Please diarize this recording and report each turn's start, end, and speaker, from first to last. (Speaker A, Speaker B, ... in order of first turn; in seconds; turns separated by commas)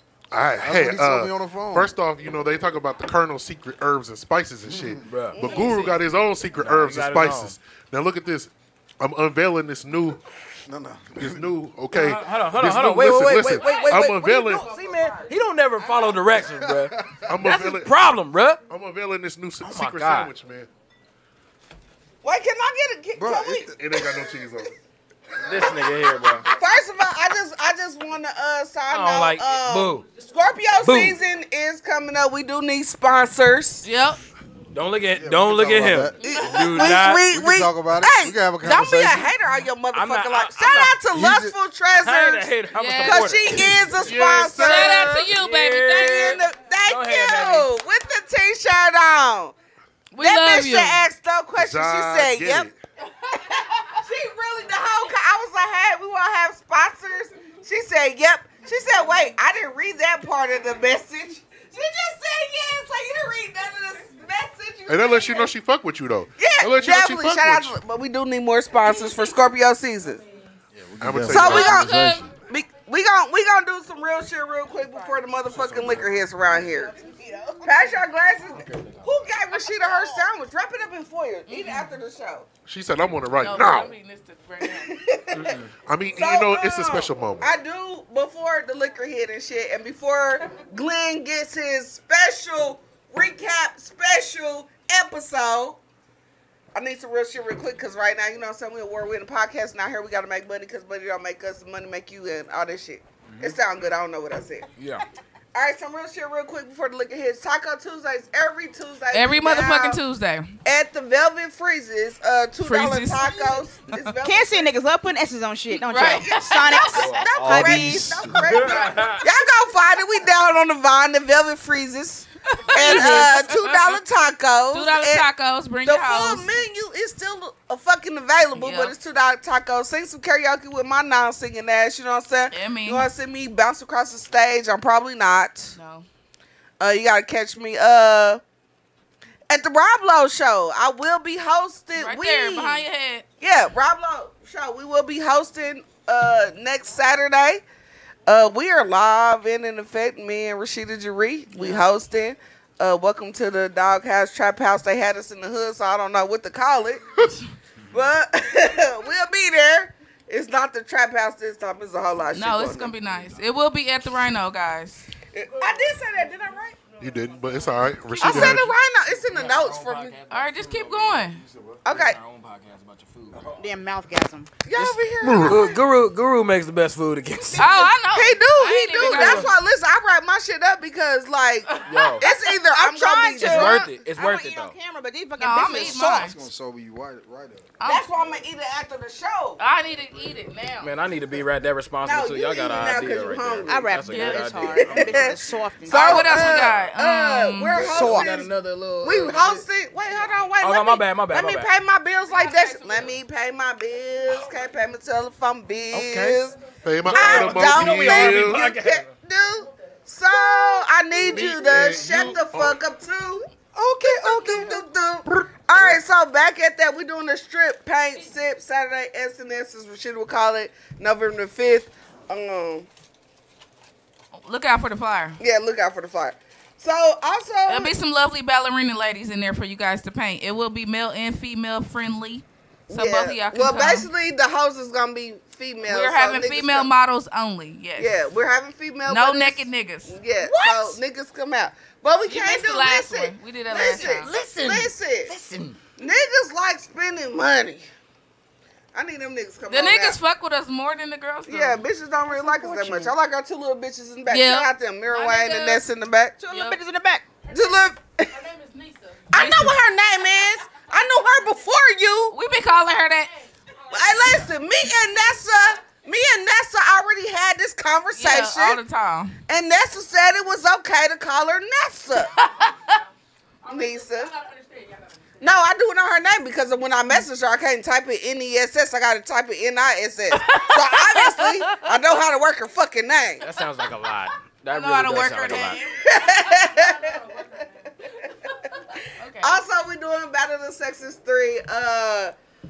Speaker A: 0.3-10.2, Speaker B: 0.6-1.9, Speaker B: 4.7-5.0, Speaker C: 5.1-6.0, Speaker D: 5.4-5.9, Speaker C: 6.5-7.6, Speaker B: 10.7-11.5, Speaker A: 11.2-14.7, Speaker C: 11.9-18.6, Speaker E: 14.7-15.2, Speaker B: 16.4-17.2, Speaker A: 17.2-18.0, Speaker A: 18.7-20.7, Speaker C: 19.6-20.3, Speaker D: 22.2-24.4, Speaker B: 23.1-23.7, Speaker A: 23.7-24.7, Speaker C: 25.4-26.5, Speaker D: 26.4-33.9, Speaker C: 28.9-30.1, Speaker C: 30.8-31.2, Speaker E: 33.8-34.2, Speaker C: 34.7-37.2, Speaker B: 35.1-36.2, Speaker D: 36.2-45.3, Speaker B: 37.3-39.3, Speaker C: 39.9-41.0, Speaker B: 41.1-41.5, Speaker C: 42.0-43.8, Speaker E: 42.8-43.3, Speaker A: 44.0-45.2, Speaker E: 44.6-46.4, Speaker C: 45.2-47.7, Speaker D: 45.9-49.5, Speaker E: 50.1-51.0, Speaker D: 50.2-52.7, Speaker A: 51.6-52.7, Speaker D: 53.4-65.5, Speaker A: 64.9-67.8, Speaker D: 66.4-70.2, Speaker B: 70.7-72.3, Speaker A: 71.0-71.8, Speaker D: 71.3-82.5, Speaker E: 71.4-72.2, Speaker A: 75.7-76.1, Speaker C: 78.5-79.2, Speaker E: 81.5-81.9, Speaker A: 82.7-83.9, Speaker E: 83.4-85.0, Speaker D: 84.6-85.6, Speaker C: 85.3-85.7, Speaker A: 85.8-87.5, Speaker D: 86.2-95.8, Speaker D: 96.7-104.7, Speaker C: 103.3-103.5, Speaker C: 104.8-105.0, Speaker D: 105.5-110.0, Speaker E: 109.1-110.5, Speaker D: 110.7-114.7, Speaker E: 112.6-114.1, Speaker F: 114.2-118.2, Speaker E: 115.7-117.2, Speaker D: 116.0-125.3, Speaker C: 116.9-117.3, Speaker B: 117.3-118.8, Speaker C: 118.3-119.3, Speaker E: 122.5-124.0, Speaker E: 124.7-126.5, Speaker D: 125.8-135.8, Speaker E: 128.6-128.9, Speaker E: 132.5-133.1, Speaker E: 135.8-136.1, Speaker D: 136.8-138.4, Speaker D: 139.5-142.8, Speaker E: 142.0-143.2, Speaker D: 143.4-147.6, Speaker D: 148.3-157.4, Speaker E: 151.5-151.9, Speaker D: 157.9-162.9, Speaker E: 162.3-165.1, Speaker D: 165.3-166.8, Speaker A: 167.0-168.7, Speaker D: 168.2-170.2, Speaker C: 168.2-168.6, Speaker C: 169.2-173.4, Speaker E: 170.3-171.4, Speaker B: 171.4-171.8, Speaker D: 171.8-172.2, Speaker F: 173.6-174.5, Speaker D: 174.7-175.8, Speaker C: 174.7-177.9, Speaker A: 175.2-175.7, Speaker E: 177.6-179.5, Speaker D: 178.1-183.8, Speaker C: 179.0-179.5, Speaker E: 181.7-183.7, Speaker C: 181.9-182.2, Speaker F: 182.8-186.3, Speaker C: 183.4-184.7, Speaker E: 185.4-186.4, Speaker B: 186.1-187.7, Speaker E: 187.8-188.1, Speaker D: 187.8-189.6, Speaker E: 189.6-190.9, Speaker C: 190.8-195.4, Speaker D: 192.1-193.9, Speaker F: 193.7-196.6, Speaker E: 194.1-194.5, Speaker D: 194.6-198.5, Speaker E: 195.9-197.9, Speaker C: 196.3-196.9, Speaker B: 197.8-198.3, Speaker C: 197.8-199.7, Speaker D: 199.0-213.5, Speaker C: 200.6-201.7, Speaker E: 202.4-202.8, Speaker C: 205.9-206.4, Speaker A: 206.8-208.7, Speaker C: 207.1-209.1, Speaker A: 211.2-212.8, Speaker F: 213.9-214.8, Speaker D: 214.0-222.9, Speaker E: 224.4-225.4, Speaker D: 225.4-227.9, Speaker E: 227.7-234.1, Speaker D: 232.9-236.9, Speaker E: 235.8-238.1, Speaker D: 238.0-245.3, Speaker E: 239.1-240.2, Speaker C: 240.4-241.0, Speaker E: 242.3-244.3, Speaker C: 244.0-245.8, Speaker D: 246.0-247.8, Speaker D: 248.9-250.2, Speaker E: 249.7-251.8, Speaker D: 251.5-256.4, Speaker F: 252.3-253.1, Speaker E: 254.3-255.8, Speaker F: 256.4-257.3, Speaker E: 256.5-256.8, Speaker D: 257.5-258.4, Speaker D: 259.3-262.4, Speaker E: 259.3-259.8, Speaker E: 262.3-263.3, Speaker D: 263.9-268.8, Speaker E: 268.1-269.4, Speaker D: 269.5-272.4, Speaker E: 272.4-273.0, Speaker D: 273.7-274.3, Speaker D: 275.4-283.4, Speaker E: 280.3-281.9, Speaker C: 283.4-285.8, Speaker E: 284.7-286.1, Speaker D: 286.0-287.3, Speaker E: 289.2-289.6, Speaker D: 289.4-292.3